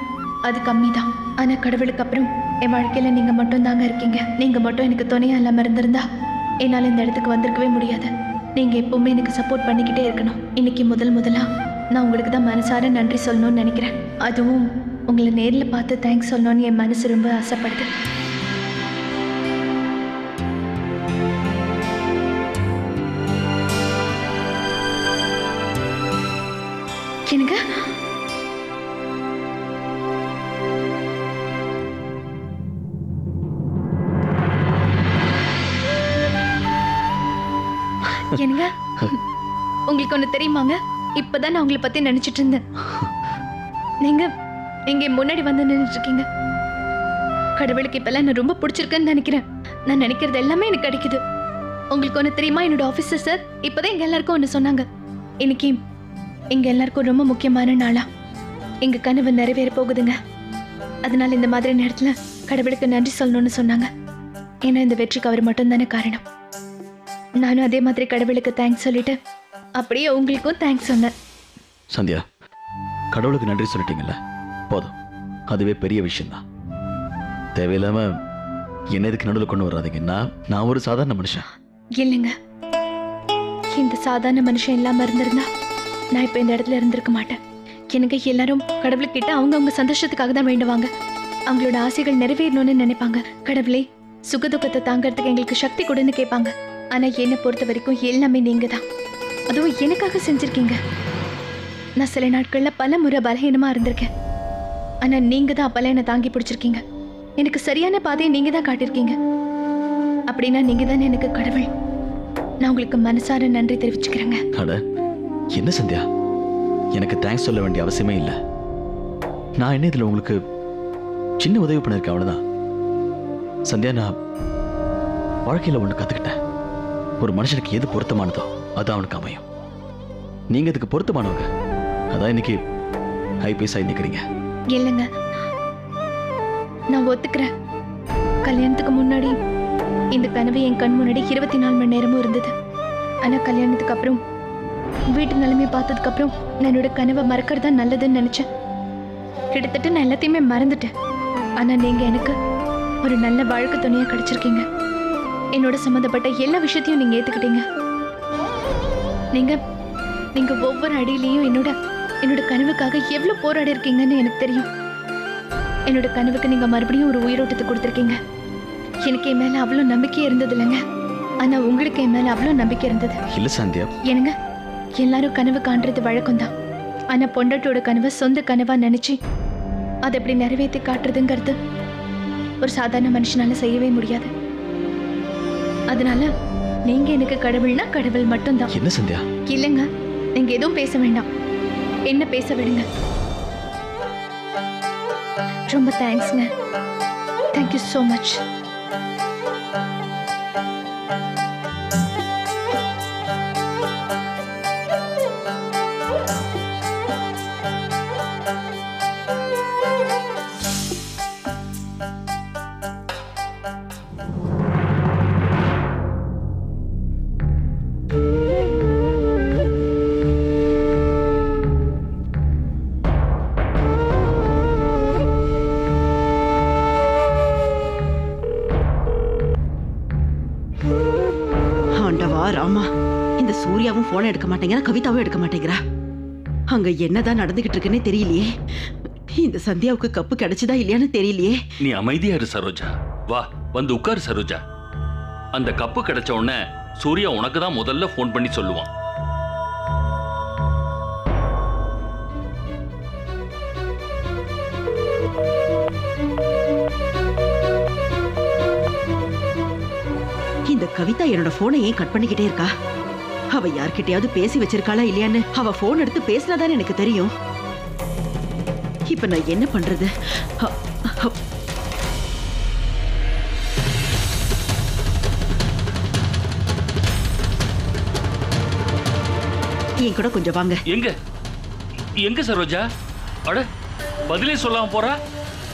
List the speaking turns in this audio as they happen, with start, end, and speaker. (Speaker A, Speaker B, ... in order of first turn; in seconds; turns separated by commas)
Speaker A: 0.5-6.0, Speaker A: 6.6-17.9, Speaker A: 27.3-27.6, Speaker A: 38.3-39.2, Speaker A: 39.9-42.6, Speaker A: 44.0-44.3, Speaker A: 44.9-46.2, Speaker A: 47.6-51.2, Speaker A: 51.9-54.9, Speaker A: 55.4-55.8, Speaker A: 56.5-58.0, Speaker A: 58.8-60.1, Speaker A: 61.0-63.9, Speaker A: 64.7-66.2, Speaker A: 67.4-69.2, Speaker A: 69.8-71.1, Speaker B: 71.9-72.2, Speaker B: 73.1-74.2, Speaker B: 74.7-74.9, Speaker B: 75.5-76.4, Speaker B: 77.5-78.1, Speaker B: 78.9-81.5, Speaker A: 82.0-82.3, Speaker A: 83.7-85.5, Speaker A: 86.1-87.4, Speaker A: 87.9-90.9, Speaker A: 91.5-98.8, Speaker A: 99.5-100.8, Speaker A: 102.0-104.1, Speaker A: 105.0-106.8, Speaker A: 107.4-109.2, Speaker A: 110.3-111.7, Speaker A: 112.6-114.4, Speaker B: 114.5-114.8, Speaker B: 115.5-116.0, Speaker B: 116.9-118.3, Speaker B: 119.6-120.4, Speaker B: 121.4-122.4, Speaker B: 123.7-124.1, Speaker B: 125.5-126.3, Speaker B: 127.2-129.4, Speaker B: 130.5-131.5, Speaker B: 132.1-132.6, Speaker B: 133.4-134.2, Speaker A: 134.7-135.1, Speaker A: 136.9-137.5, Speaker A: 138.4-139.3, Speaker A: 140.1-142.5, Speaker A: 143.2-144.2, Speaker A: 145.1-148.4, Speaker A: 149.5-150.9, Speaker A: 151.6-152.3, Speaker A: 153.0-154.6, Speaker A: 155.5-157.6, Speaker A: 160.3-164.7, Speaker A: 165.9-168.2, Speaker A: 169.1-170.8, Speaker A: 171.4-173.2, Speaker B: 173.3-173.9, Speaker A: 174.1-174.3, Speaker A: 175.0-176.5, Speaker A: 177.1-179.2, Speaker A: 180.1-181.6, Speaker A: 182.6-184.3, Speaker A: 185.9-186.3, Speaker A: 186.9-188.7, Speaker B: 188.7-189.2, Speaker A: 189.5-191.2, Speaker A: 192.1-192.8, Speaker A: 195.7-196.5, Speaker A: 197.5-198.4, Speaker C: 232.0-232.8, Speaker C: 233.4-235.8, Speaker C: 236.7-238.5, Speaker C: 239.3-241.5, Speaker D: 241.8-244.6, Speaker D: 245.6-248.9, Speaker C: 260.7-262.7, Speaker C: 263.5-267.3, Speaker C: 269.1-270.1, Speaker C: 270.6-271.3, Speaker C: 280.0-280.8, Speaker D: 280.9-281.1, Speaker D: 282.2-282.8, Speaker D: 284.3-285.1